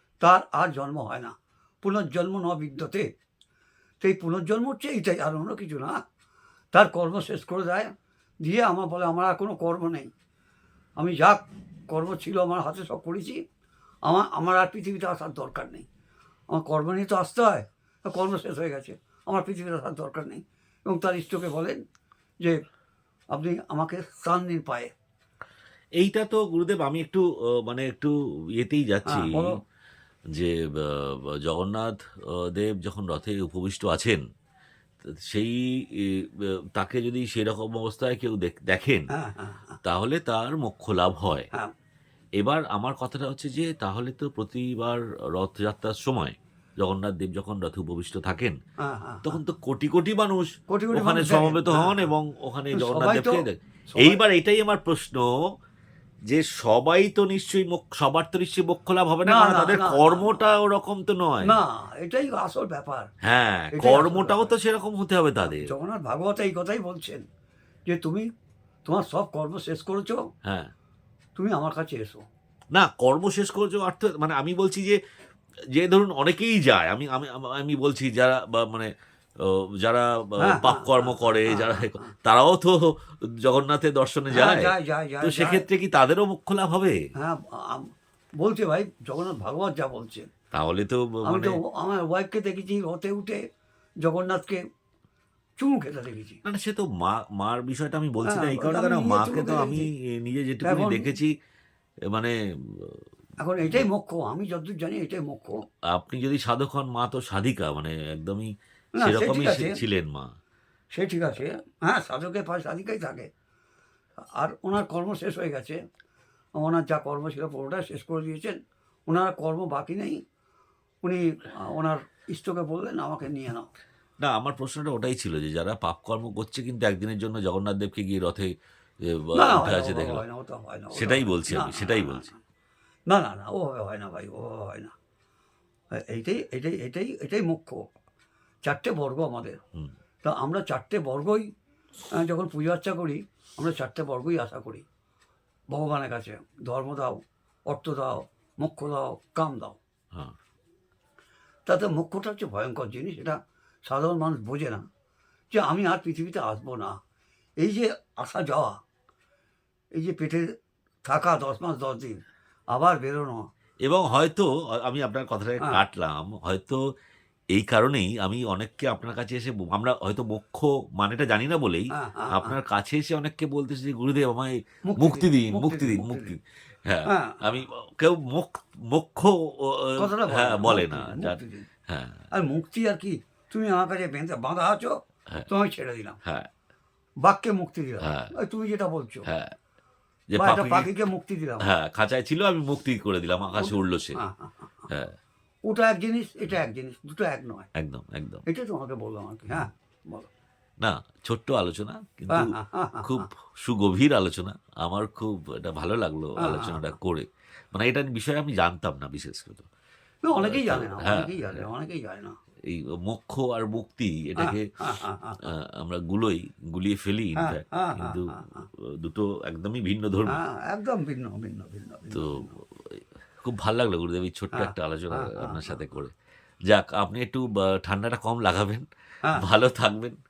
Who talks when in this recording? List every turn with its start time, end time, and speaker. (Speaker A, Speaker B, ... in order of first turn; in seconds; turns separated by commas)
Speaker A: 0.2-3.1, Speaker A: 4.0-6.0, Speaker A: 6.7-7.9, Speaker A: 8.4-10.1, Speaker A: 11.0-13.4, Speaker A: 14.1-15.9, Speaker A: 16.5-21.8, Speaker A: 23.3-24.9, Speaker B: 26.0-29.6, Speaker A: 29.1-29.6, Speaker B: 30.3-34.2, Speaker B: 35.0-39.1, Speaker A: 39.1-39.8, Speaker B: 39.8-41.5, Speaker B: 42.4-48.6, Speaker A: 48.8-49.3, Speaker B: 49.2-55.4, Speaker A: 50.7-52.1, Speaker A: 52.7-54.2, Speaker B: 56.3-61.6, Speaker A: 59.2-60.5, Speaker A: 61.4-63.1, Speaker B: 63.2-65.7, Speaker A: 63.7-64.5, Speaker A: 65.5-67.2, Speaker A: 67.9-68.2, Speaker A: 68.8-70.2, Speaker B: 70.5-70.7, Speaker A: 71.4-72.2, Speaker B: 72.7-75.0, Speaker B: 75.8-82.9, Speaker A: 80.4-82.1, Speaker B: 83.4-87.0, Speaker A: 84.3-85.6, Speaker A: 87.2-87.9, Speaker A: 88.4-90.3, Speaker B: 90.5-91.6, Speaker A: 91.2-93.4, Speaker A: 94.0-94.6, Speaker A: 95.6-96.4, Speaker B: 96.5-101.3, Speaker A: 98.2-99.9, Speaker A: 100.6-101.1, Speaker B: 102.1-103.0, Speaker A: 103.4-105.6, Speaker B: 105.9-110.3, Speaker A: 109.0-109.8, Speaker A: 110.9-113.3, Speaker A: 114.3-115.8, Speaker A: 116.6-120.2, Speaker A: 121.0-123.7, Speaker B: 124.2-128.5, Speaker B: 129.1-130.2, Speaker A: 129.3-132.4, Speaker B: 130.9-132.3, Speaker A: 133.1-134.9, Speaker A: 136.0-137.8, Speaker A: 138.6-139.6, Speaker A: 140.2-141.5, Speaker A: 142.2-144.8, Speaker A: 145.7-149.8, Speaker A: 151.7-154.9, Speaker A: 155.5-157.0, Speaker A: 157.6-158.8, Speaker A: 160.0-160.5, Speaker A: 161.1-162.2, Speaker A: 162.7-163.4, Speaker B: 163.8-166.8, Speaker B: 167.5-181.4, Speaker A: 171.9-172.6, Speaker A: 174.8-176.4, Speaker A: 177.1-177.4, Speaker A: 180.0-181.7, Speaker B: 181.9-182.2, Speaker A: 182.3-185.0, Speaker A: 185.5-186.2, Speaker A: 187.2-189.2, Speaker B: 188.0-188.3, Speaker B: 189.3-189.5, Speaker B: 190.3-190.9, Speaker A: 190.4-191.7, Speaker B: 191.6-194.2, Speaker A: 193.6-194.5, Speaker B: 194.9-195.2, Speaker A: 195.7-197.7, Speaker B: 197.8-198.4, Speaker A: 198.5-200.3, Speaker B: 200.8-209.7, Speaker A: 202.3-203.3, Speaker A: 206.4-206.9, Speaker A: 210.2-212.3, Speaker B: 210.3-211.6, Speaker B: 212.7-214.7, Speaker A: 214.4-215.4, Speaker B: 215.4-220.4, Speaker A: 217.4-218.6, Speaker A: 220.3-222.6, Speaker B: 222.1-226.1, Speaker A: 224.5-225.7, Speaker B: 226.7-230.2